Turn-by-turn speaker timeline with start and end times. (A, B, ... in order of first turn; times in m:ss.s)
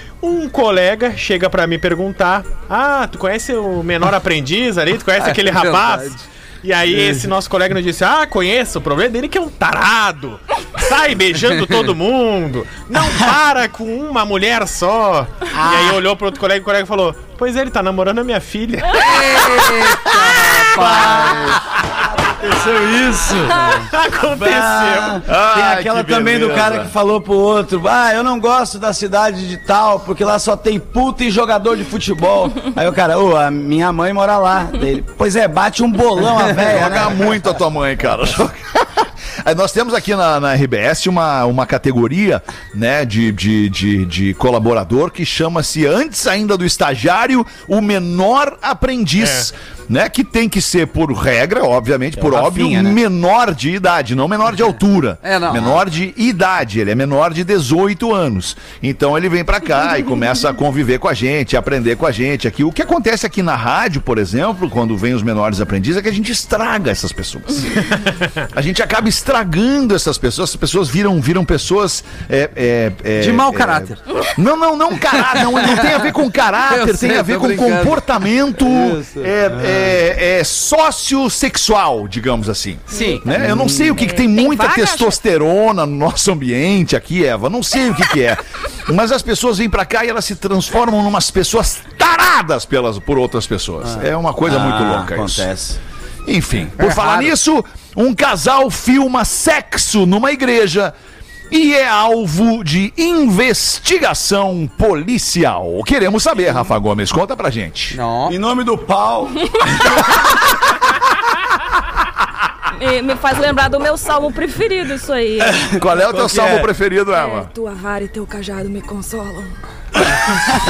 0:00.2-0:19.4 A
0:05.2-0:06.2 B
0:06.9-0:07.3 B
0:15.5-0:16.0 C
0:18.9-0:21.5 B
0:20.0-0:21.6 D
0:20.7-0:23.8 C
0:23.9-0:25.2 A
0:24.3-0:37.4 C
0:25.3-0:26.9 D
0:36.5-1:35.5 D
0:49.2-0:49.5 A
0:52.2-0:53.0 C
0:55.2-0:55.8 B
1:13.2-1:14.0 B
1:15.1-1:16.1 B
1:16.6-1:19.3 B
1:19.6-1:19.9 C
1:22.9-1:23.9 B
1:22.9-1:25.2 E
1:34.4-1:35.8 C
1:36.2-1:40.9 D
1:36.8-1:37.3 B
1:41.5-1:48.0 D
1:47.9-1:48.4 B
1:48.3-1:50.2 C
1:52.8-1:55.7 E
1:55.4-1:56.7 C
1:55.7-1:57.5 D
1:57.0-1:59.5 E